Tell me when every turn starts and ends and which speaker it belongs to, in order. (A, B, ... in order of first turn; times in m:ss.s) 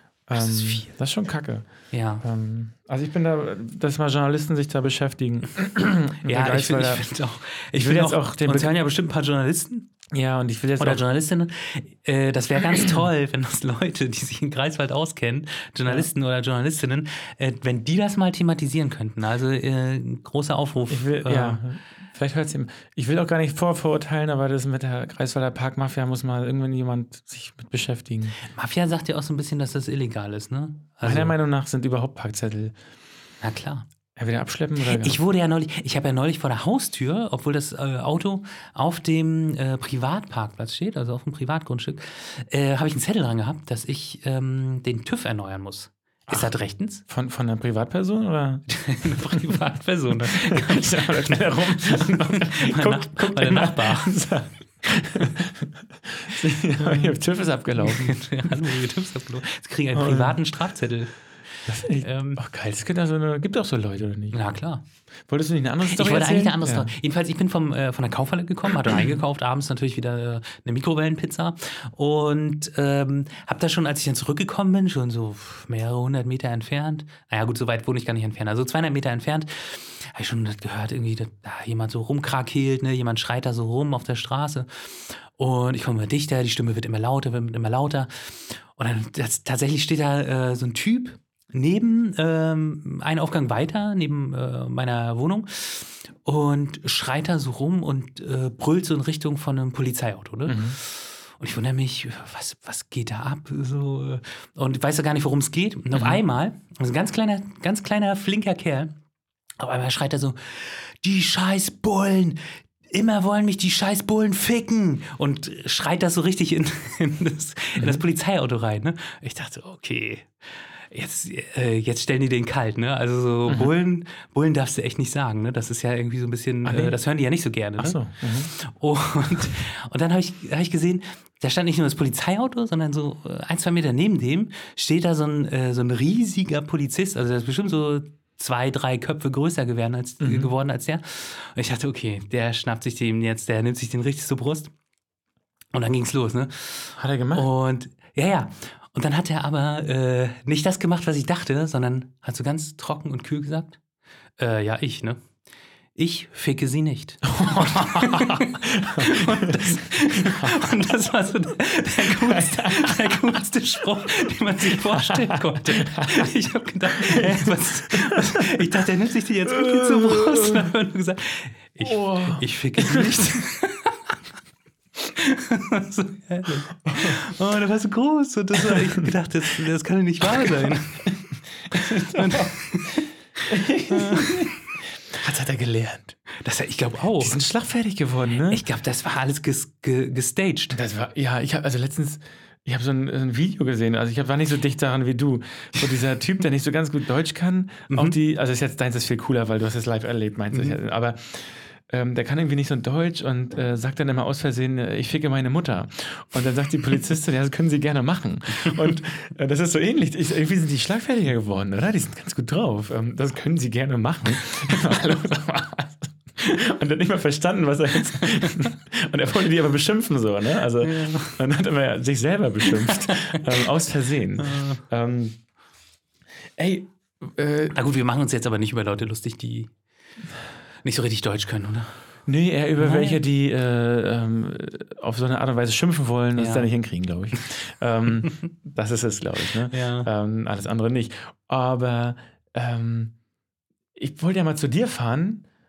0:00.3-0:01.7 A
0:00.3-0:00.9 B
0:01.9-0:02.2 B
0:02.2-0:07.0 A
0:06.2-0:09.9 B
0:07.7-0:08.7 A
0:10.1-0:11.0 A
0:10.8-0:21.6 B
0:20.9-0:28.4 A
0:28.4-0:31.3 B
0:31.0-0:32.7 A
0:33.4-0:33.8 B
0:34.2-0:35.2 A
0:34.8-0:47.0 B
0:47.1-0:49.6 A
0:48.7-0:54.1 B
0:50.3-0:58.6 A
0:56.8-0:57.2 B
0:57.8-1:01.1 B
0:59.9-1:00.4 A
1:01.6-1:04.4 A
1:02.0-1:02.4 B
1:04.3-1:04.8 B
1:05.3-1:06.9 A
1:05.8-1:48.9 B
1:40.5-1:40.8 A
1:45.9-1:46.2 A
1:49.6-2:24.7 B
1:57.8-1:58.0 A
2:06.6-2:07.0 A
2:07.8-2:08.5 A
2:20.2-2:20.5 A
2:25.7-2:33.8 B
2:27.0-2:27.5 A
2:34.4-2:35.2 B
2:35.9-2:54.1 B
2:37.2-2:40.6 A
2:42.2-2:43.2 A
2:44.9-2:46.3 A
2:47.0-2:48.6 A
2:49.5-2:50.7 A
2:51.8-2:53.5 A
2:55.0-3:01.1 B
2:56.9-2:57.2 A
3:01.7-3:03.0 A
3:01.7-3:04.6 B
3:03.5-3:04.6 A
3:05.1-3:06.2 A
3:06.3-3:07.4 B
3:07.2-3:08.6 A
3:08.5-3:10.8 B
3:10.7-3:45.4 A
3:17.9-3:18.2 B
3:20.5-3:20.8 B
3:28.6-3:28.9 B
3:40.8-3:41.4 B
3:42.6-3:43.4 B
3:44.4-3:44.8 B
3:46.6-3:47.8 A
3:47.7-3:49.7 B
3:50.8-3:52.0 B
3:52.3-4:03.1 A
3:52.8-3:53.2 B
3:56.4-3:56.7 B
3:59.7-4:00.1 B
4:04.0-4:05.4 A